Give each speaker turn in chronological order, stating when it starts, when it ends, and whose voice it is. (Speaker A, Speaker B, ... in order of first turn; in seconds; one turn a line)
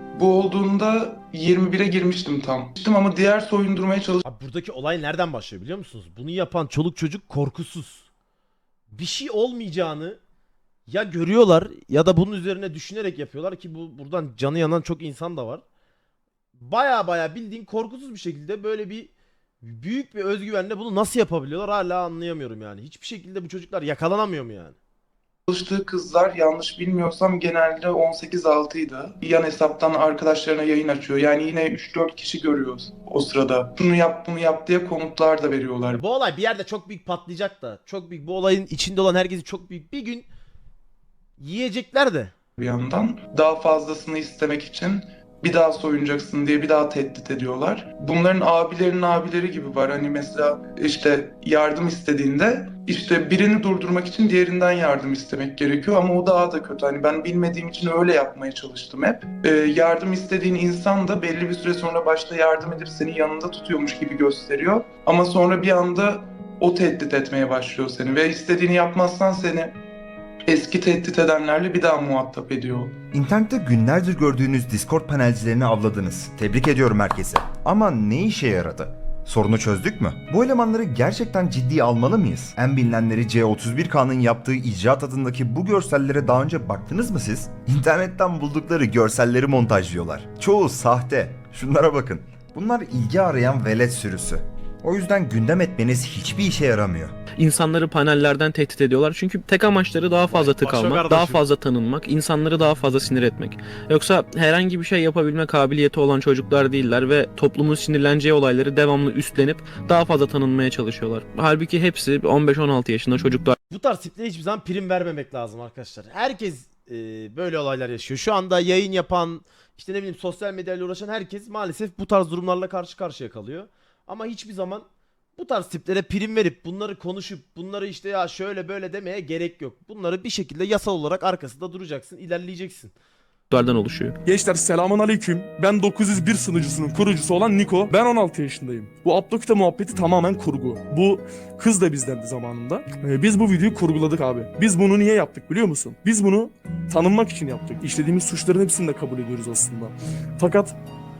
Speaker A: 0.1-4.2
Speaker B: 4.2-8.1
Speaker B: 8.9-10.2
Speaker B: 10.9-15.6
Speaker B: 16.6-24.8
Speaker A: 25.5-36.0
Speaker B: 35.9-40.3
Speaker B: 41.4-42.3
Speaker A: 42.6-69.8
Speaker A: 70.5-72.9
Speaker C: 73.1-97.1
Speaker D: 97.4-113.5
Speaker B: 100.3-101.5
Speaker B: 113.7-132.9
Speaker D: 133.5-134.2
Speaker E: 134.2-150.8